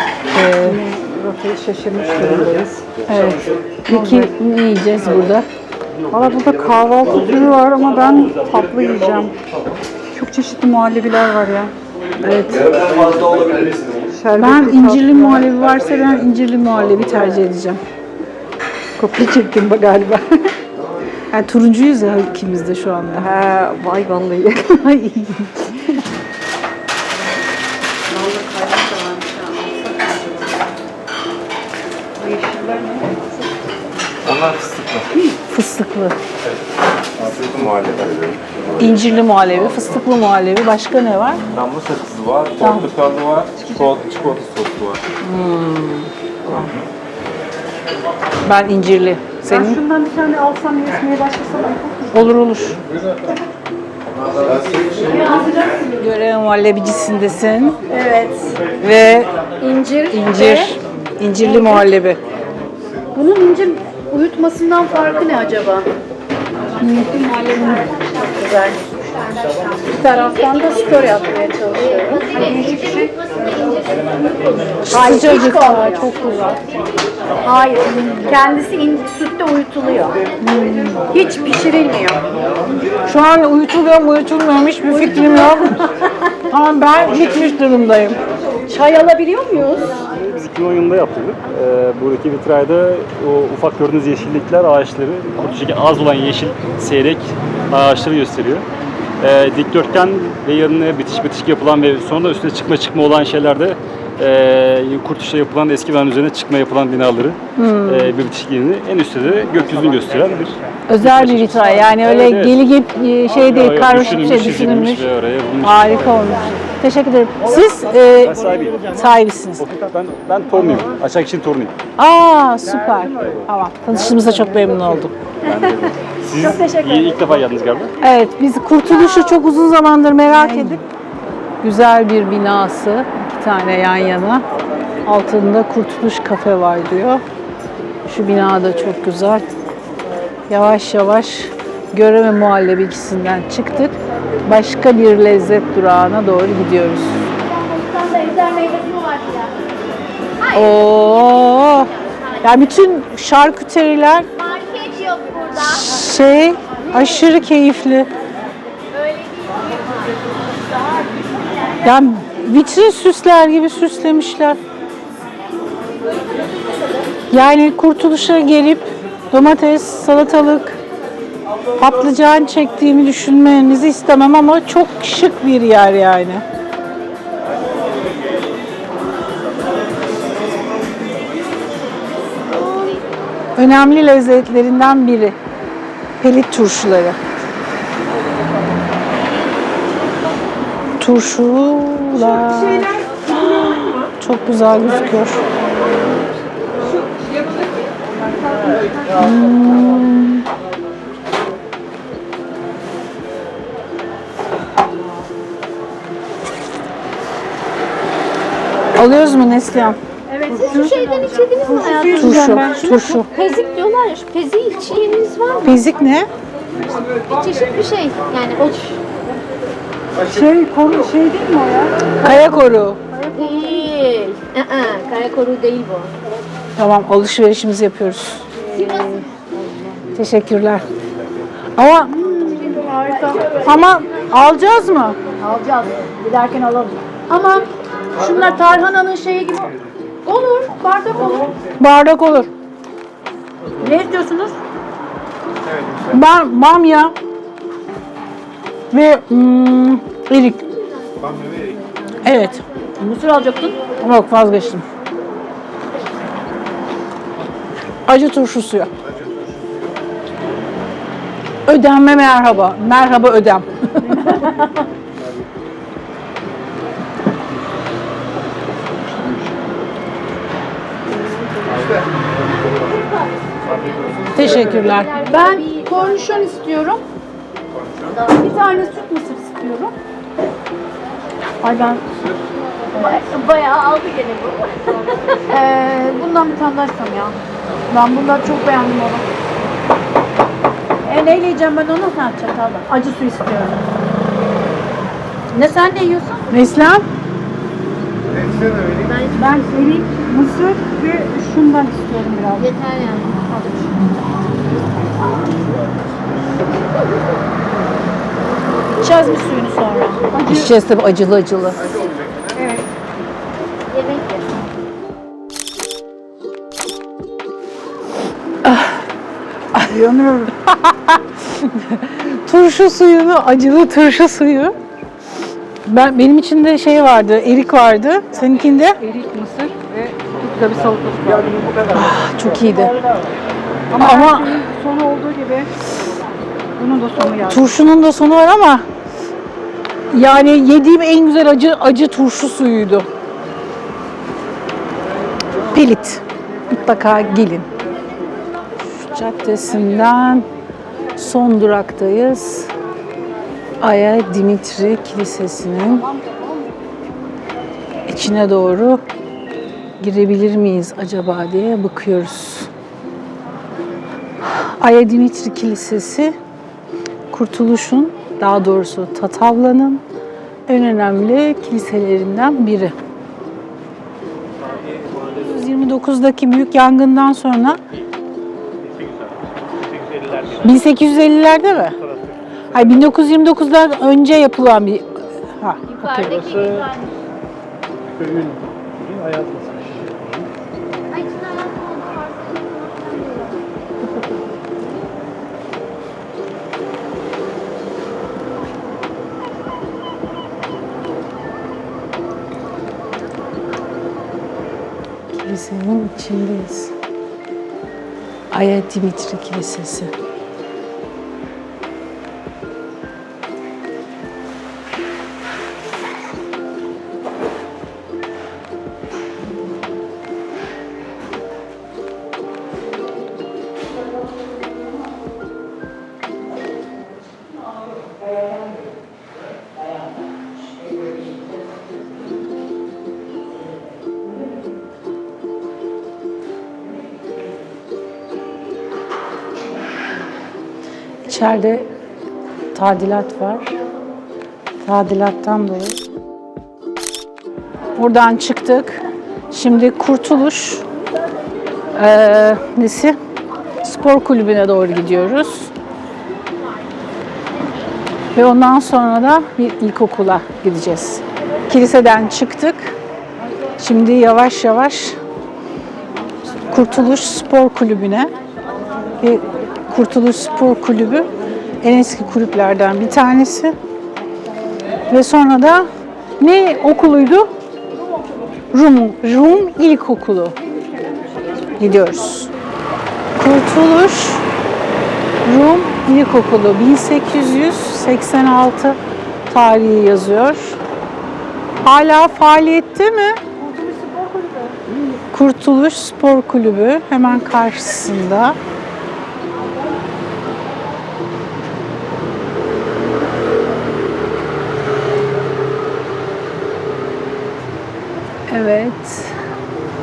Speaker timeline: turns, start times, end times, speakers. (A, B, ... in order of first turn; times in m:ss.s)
0:00.3-0:00.8 A
0:00.4-0:02.9 B
0:03.1-0:05.5 A
0:03.9-0:04.3 B
0:06.1-0:09.4 B
0:10.1-0:11.7 B
0:12.2-0:12.6 A
0:12.5-0:14.1 C
0:14.1-0:15.5 B
0:14.4-0:17.8 A
0:19.0-0:20.5 B
0:21.3-0:23.3 A
0:23.2-0:24.9 B
0:24.8-0:26.0 A
0:28.1-0:30.8 B
0:32.2-0:33.7 B
0:34.2-0:35.1 C
0:35.5-0:36.2 A
0:37.2-0:38.6 C
0:38.8-0:41.4 A
0:41.5-0:45.0 C
0:42.6-0:42.9 A
0:45.2-0:46.7 A
0:46.5-0:46.8 C
0:48.4-0:49.8 A
0:49.5-0:52.0 D
0:50.1-0:51.8 B
0:52.1-0:52.8 A
0:55.1-0:55.7 D
0:56.0-0:57.8 A
0:57.9-0:58.6 D
0:58.8-0:59.3 A
0:59.6-1:00.7 D
1:00.1-1:02.2 A
1:01.4-1:01.9 D
1:03.1-1:05.9 D
1:06.8-1:07.1 A
1:06.9-1:08.8 D
1:07.5-1:08.3 E
1:08.9-1:17.8 E
1:09.9-1:13.1 D
1:14.8-1:16.1 D
1:14.9-1:16.6 A
1:17.4-1:20.2 D
1:20.4-1:21.1 A
1:21.1-1:22.2 D
1:23.0-1:25.8 A
1:24.9-1:25.9 D
1:26.5-1:28.2 A
1:28.7-1:30.0 D
1:30.0-1:38.7 F
1:39.2-1:52.6 F
1:47.6-1:48.1 A
1:50.9-1:55.1 A
1:53.4-1:56.3 F
1:55.6-1:58.4 A
1:58.1-1:58.9 F
1:58.9-1:59.7 A
1:59.6-2:01.7 F
2:02.0-2:05.1 A
2:05.4-2:07.9 F
2:06.3-2:07.3 D
2:08.0-2:10.8 A
2:11.6-2:14.4 A
2:15.0-2:17.2 A
2:18.1-2:19.5 A
2:20.5-2:27.2 A
2:27.5-2:29.0 D
2:27.5-2:29.5 E
2:30.4-2:32.8 E
2:30.5-2:31.9 A
2:32.4-2:34.3 A
2:34.3-2:36.3 E
2:35.6-2:38.1 A
2:38.9-2:41.8 E
2:41.8-2:44.6 A
2:47.3-2:50.8 A
2:51.8-2:56.4 A
3:02.6-3:03.5 E
3:03.6-3:05.4 A
3:06.2-3:07.2 A
3:11.0-3:15.5 A
3:12.3-3:13.6 D
3:19.1-3:20.4 A
3:29.0-3:30.0 A
3:30.3-3:33.1 D
3:30.5-3:35.8 E
3:32.2-3:33.3 A
3:35.6-3:36.3 A
3:36.9-3:39.0 E
3:40.3-3:41.4 B
3:42.2-3:43.0 A
3:43.1-3:43.9 D
3:43.3-3:46.1 E
3:46.8-3:48.5 A
3:48.7-3:50.0 D
3:48.7-3:49.4 E
3:50.2-3:50.9 A
3:51.8-3:52.1 A
3:52.1-3:53.9 D
3:53.0-3:54.5 E
3:53.6-3:55.2 A
3:55.4-3:59.7 D
4:00.2-4:01.6 D
4:01.8-4:02.5 A
4:03.8-4:04.6 D
4:06.1-4:07.2 A
4:08.9-4:10.7 A
4:10.7-4:15.8 E
4:12.2-4:12.6 A
4:13.0-4:13.8 D
4:14.0-4:14.9 A
4:18.1-4:18.9 A
4:21.7-4:24.2 A
4:29.1-4:29.5 G
4:31.1-4:31.8 D
4:32.4-4:36.6 E
4:34.3-4:35.1 A
4:35.1-4:37.0 D
4:38.0-4:39.1 E
4:38.3-4:39.9 D
4:41.6-4:42.0 D
4:42.9-4:45.5 E
4:42.9-4:43.5 D
4:45.5-4:47.4 D
4:47.9-4:49.2 D
4:51.0-4:53.8 D
4:55.5-4:56.6 D
4:56.5-4:57.1 A
4:58.8-5:00.0 E
4:59.4-5:02.7 D
5:02.6-5:03.8 E
5:03.5-5:03.8 D
5:09.0-5:10.6 D
5:10.4-5:11.8 A
5:12.6-5:12.8 D
5:13.9-5:14.5 E
5:18.6-5:19.0 A
5:19.7-5:20.0 A
5:20.6-5:24.8 A
5:25.9-5:29.0 A
5:29.0-5:31.6 B
5:31.3-5:32.1 G
5:31.9-5:33.0 A
5:34.0-5:34.6 A
5:34.0-5:35.7 D
5:36.8-5:37.4 B
5:37.2-5:37.6 D
5:37.5-5:38.9 A
5:40.1-5:43.1 A
5:45.7-5:46.2 A
5:46.7-5:47.7 A
5:49.0-5:50.5 A
5:51.2-5:52.7 A
5:53.8-5:56.1 A
5:58.1-5:59.0 A
6:00.0-6:02.7 A
6:04.5-6:06.4 A
6:07.3-6:10.0 A
6:10.7-6:13.0 A
6:14.6-6:15.7 G
6:15.3-6:17.8 A
6:18.8-6:21.0 G
6:20.6-6:22.0 A
6:22.0-6:23.0 G
6:22.7-6:26.3 A
6:25.9-6:27.2 E
6:26.2-6:26.9 G
6:28.0-6:30.5 G
6:31.1-6:34.4 E
6:45.4-6:46.9 A
6:48.5-6:50.1 A
7:21.2-7:21.9 A
7:22.7-7:23.8 A
7:24.8-7:26.0 A
7:28.0-7:30.8 A
7:31.9-7:33.2 A
7:33.8-7:35.7 A
7:36.3-7:38.2 E
7:38.4-7:43.0 A
7:43.8-7:45.2 A
7:46.7-7:48.3 A
7:49.2-7:51.3 A
7:51.8-7:53.8 A
7:55.1-7:55.9 A
7:56.4-7:57.5 A
7:58.7-8:00.6 A
8:01.2-8:01.8 D
8:01.8-8:02.5 A
8:03.4-8:04.4 A
8:05.4-8:09.0 A
8:09.5-8:10.8 A
8:11.8-8:13.4 A
8:13.6-8:14.8 D
8:15.0-8:18.6 A
8:28.5-8:29.4 A